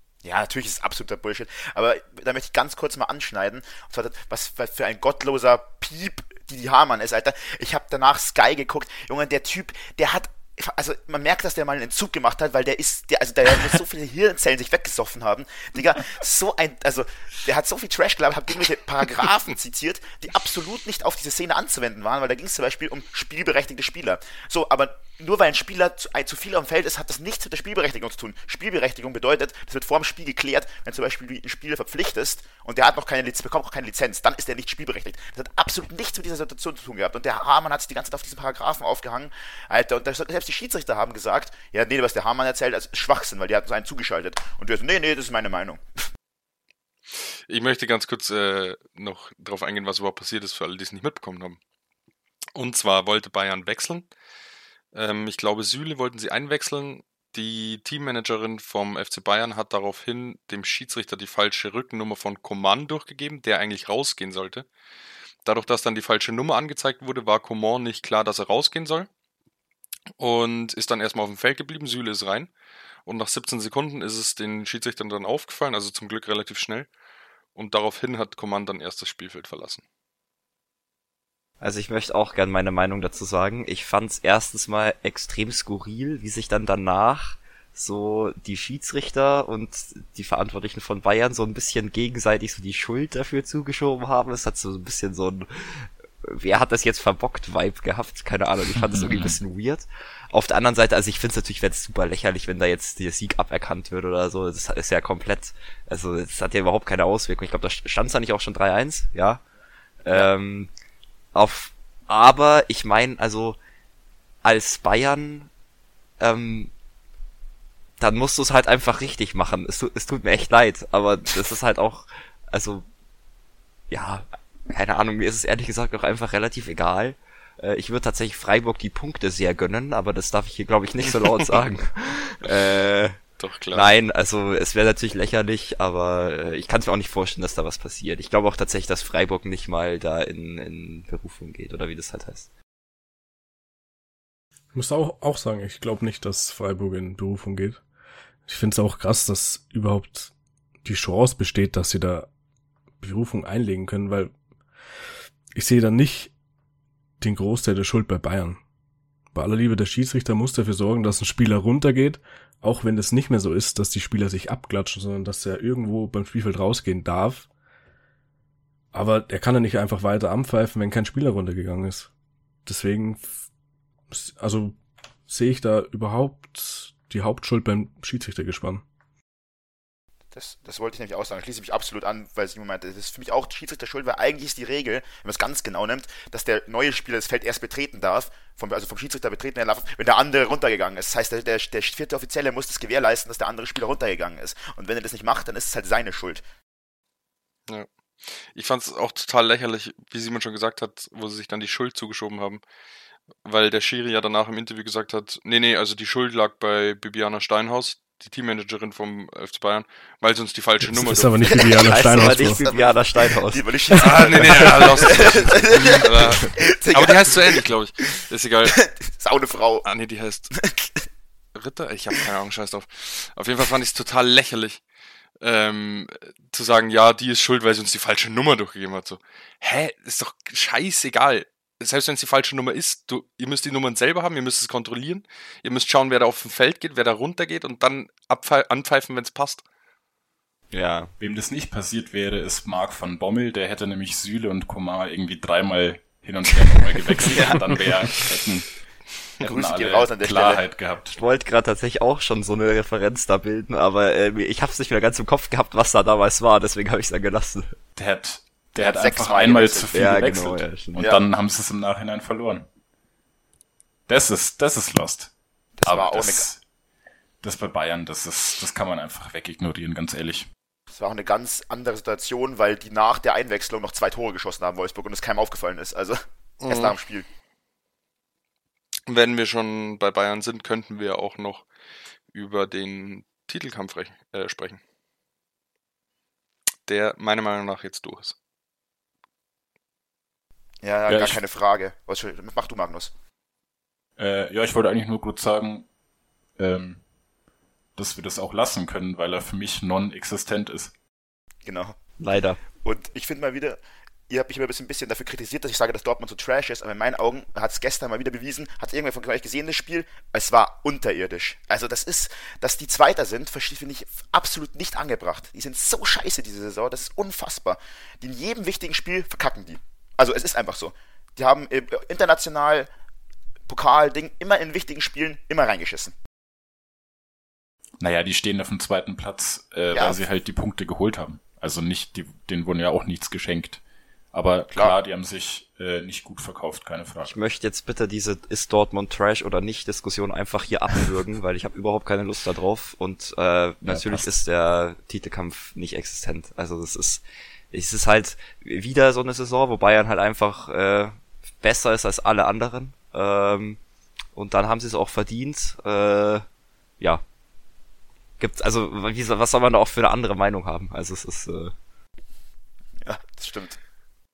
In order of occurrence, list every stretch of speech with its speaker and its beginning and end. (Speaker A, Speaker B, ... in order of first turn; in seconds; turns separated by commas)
Speaker A: 0.2-45.8, Speaker B: 47.5-51.6, Speaker B: 52.5-54.1, Speaker B: 54.9-64.7, Speaker B: 65.5-69.1, Speaker B: 70.2-72.5, Speaker B: 73.1-76.9, Speaker B: 77.5-79.8, Speaker C: 81.6-109.4, Speaker D: 98.8-99.4, Speaker C: 110.0-110.7, Speaker C: 111.3-113.6, Speaker C: 114.4-115.5, Speaker C: 116.2-116.7, Speaker C: 118.0-122.8, Speaker C: 123.9-133.2, Speaker B: 133.4-133.9, Speaker C: 133.7-142.5, Speaker E: 144.7-147.8, Speaker E: 148.5-152.3, Speaker E: 153.0-154.3, Speaker E: 155.6-156.3, Speaker E: 157.2-158.6, Speaker E: 159.3-167.5, Speaker E: 168.9-172.1, Speaker E: 172.7-173.4, Speaker E: 174.1-174.8, Speaker E: 175.3-178.8, Speaker A: 180.3-196.4, Speaker B: 197.7-202.6, Speaker B: 203.4-211.6, Speaker E: 210.8-212.6, Speaker A: 211.5-211.8, Speaker C: 211.7-213.7, Speaker A: 212.4-217.6, Speaker B: 213.9-218.8, Speaker A: 218.8-219.9, Speaker B: 219.8-220.5, Speaker A: 220.5-221.0, Speaker B: 221.6-224.8, Speaker B: 225.4-239.6, Speaker C: 240.7-241.1, Speaker D: 241.2-248.8, Speaker A: 247.2-247.8, Speaker D: 249.4-251.2, Speaker A: 249.4-250.6, Speaker C: 251.1-257.8, Speaker D: 258.0-262.7, Speaker A: 258.8-260.1, Speaker C: 259.9-261.0, Speaker D: 264.1-265.3, Speaker A: 265.8-266.5, Speaker D: 265.9-266.6, Speaker D: 267.4-270.5, Speaker A: 270.9-277.3, Speaker B: 276.6-276.9, Speaker B: 279.1-281.7, Speaker B: 282.3-284.8, Speaker B: 286.9-288.4, Speaker A: 290.8-293.1, Speaker D: 291.1-291.4, Speaker D: 294.2-295.9, Speaker D: 296.6-297.0, Speaker D: 298.0-300.9, Speaker A: 301.7-301.9, Speaker C: 302.2-302.6, Speaker A: 302.8-322.9, Speaker A: 323.7-326.1, Speaker D: 328.0-333.8, Speaker A: 329.9-330.2, Speaker D: 334.3-337.3, Speaker C: 337.2-353.8, Speaker D: 343.9-344.3, Speaker C: 354.3-356.4, Speaker C: 358.4-361.7, Speaker A: 363.0-363.8